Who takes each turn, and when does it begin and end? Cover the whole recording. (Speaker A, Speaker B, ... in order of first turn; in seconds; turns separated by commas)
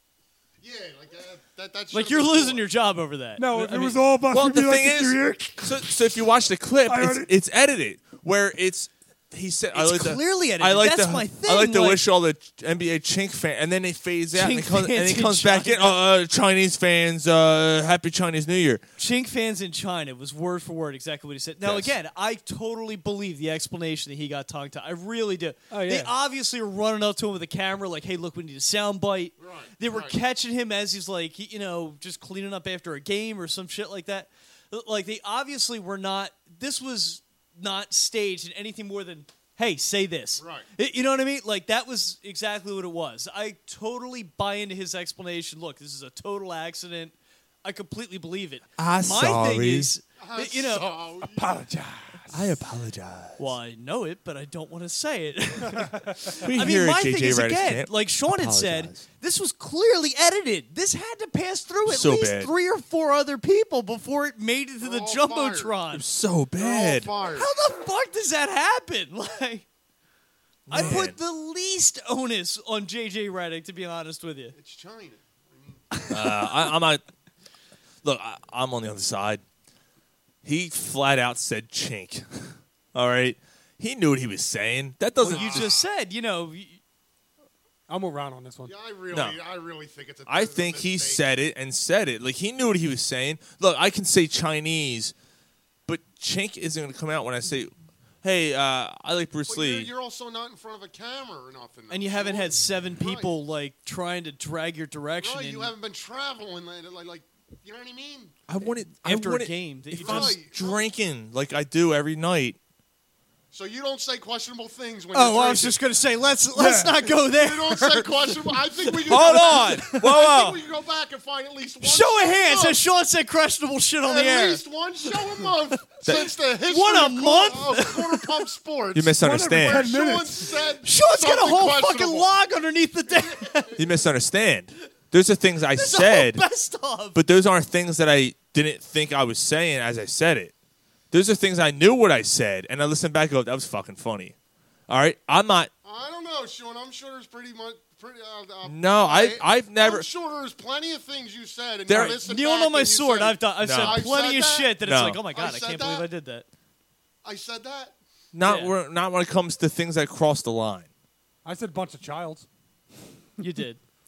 Speaker A: 0.6-2.7, Speaker B: 1.9-4.0, Speaker C: 3.4-6.1, Speaker D: 4.3-18.8, Speaker C: 6.8-7.3, Speaker B: 9.7-12.0, Speaker B: 14.3-16.0, Speaker B: 19.0-50.9, Speaker D: 21.6-21.9, Speaker C: 25.7-26.1, Speaker A: 29.4-30.2, Speaker A: 40.4-40.7, Speaker D: 48.8-49.9, Speaker A: 50.2-51.6, Speaker C: 51.4-52.6, Speaker D: 52.3-53.5, Speaker B: 53.4-66.0, Speaker C: 55.6-56.4, Speaker D: 56.4-59.0, Speaker D: 61.9-62.5, Speaker A: 64.8-65.8, Speaker D: 65.9-67.1, Speaker A: 66.6-67.5, Speaker B: 67.3-69.7, Speaker D: 70.7-71.2, Speaker B: 70.7-74.5, Speaker A: 74.5-76.0, Speaker B: 75.9-76.5, Speaker D: 76.1-77.0, Speaker D: 78.0-79.4, Speaker D: 80.4-85.8, Speaker B: 85.2-86.8, Speaker A: 85.2-85.8, Speaker C: 87.9-88.7, Speaker A: 88.7-91.2, Speaker D: 89.1-89.4, Speaker D: 90.3-95.1, Speaker D: 95.9-97.7, Speaker D: 98.2-99.9, Speaker A: 99.5-103.3, Speaker B: 101.9-105.7, Speaker A: 105.2-108.4, Speaker D: 108.5-112.6, Speaker B: 108.9-110.4, Speaker A: 109.9-110.9, Speaker A: 113.5-115.8, Speaker B: 115.1-120.0, Speaker C: 116.5-117.0, Speaker A: 117.3-122.8, Speaker D: 119.1-120.6, Speaker B: 121.8-125.5, Speaker A: 124.0-132.3, Speaker D: 126.1-126.3, Speaker B: 126.6-128.5, Speaker D: 128.9-129.9, Speaker C: 129.2-130.5, Speaker B: 130.8-133.8, Speaker A: 133.1-133.7, Speaker D: 133.8-136.4, Speaker B: 135.7-137.2, Speaker D: 137.1-140.5, Speaker D: 141.1-144.3, Speaker D: 144.9-145.7, Speaker A: 145.8-156.1, Speaker D: 148.6-150.1, Speaker D: 151.9-152.2, Speaker B: 152.2-156.4, Speaker D: 153.6-154.2, Speaker D: 154.8-155.3, Speaker A: 157.2-157.9, Speaker D: 158.3-160.9, Speaker B: 158.4-158.7, Speaker C: 161.4-162.4, Speaker B: 163.4-163.8